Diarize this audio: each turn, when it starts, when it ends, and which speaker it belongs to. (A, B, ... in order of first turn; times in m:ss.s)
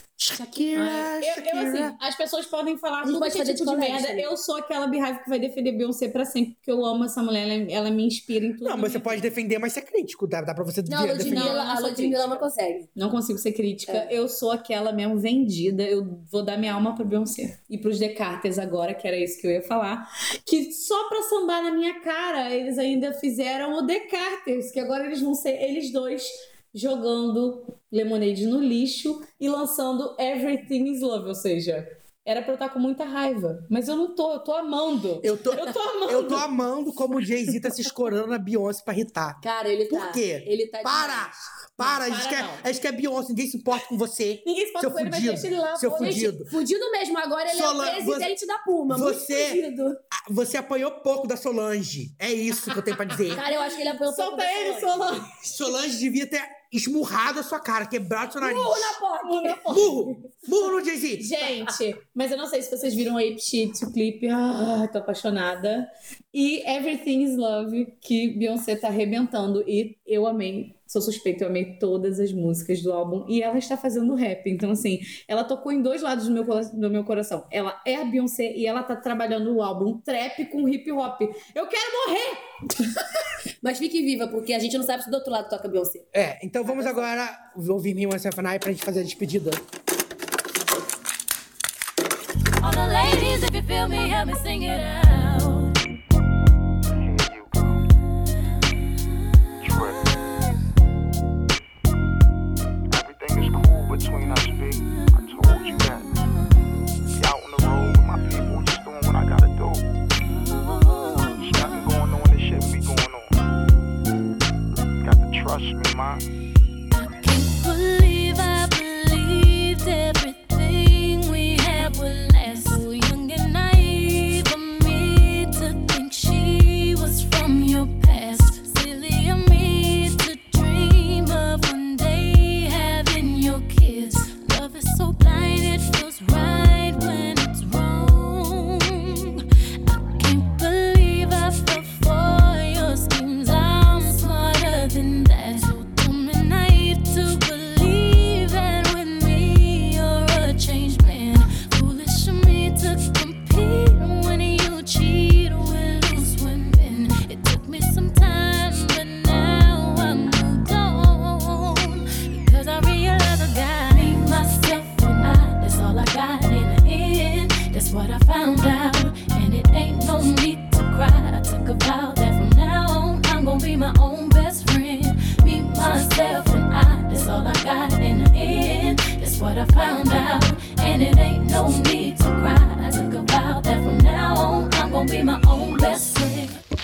0:00.2-0:02.0 A
0:00.7-0:09.2 B
0:03.0-0:04.3 C
0:08.6-0:11.6 A
0:10.9-0:12.9 C
0:11.2-0:36.5 B
0:35.2-0:46.5 A
0:39.4-0:41.3 C
0:41.8-0:42.7 B
0:44.4-0:46.3 B
0:46.0-0:50.0 C
0:47.5-0:48.3 A
0:48.9-0:49.6 A
0:50.1-0:53.4 A
0:53.2-0:55.5 B
0:53.3-0:55.0 C
0:55.4-0:59.0 A
0:58.4-0:59.8 C
0:59.2-1:00.3 B
0:59.7-1:01.4 A
1:01.2-1:22.9 B
1:23.6-1:26.1 C
1:26.1-1:29.6 A
1:26.7-1:27.1 C
1:32.6-1:35.8 D
1:37.0-1:37.8 E
1:39.6-1:40.2 E
1:42.9-1:46.2 E
1:47.1-1:49.9 E
1:50.2-1:51.8 D
1:51.4-1:53.5 E
1:55.0-1:56.2 E
1:56.9-3:06.6 D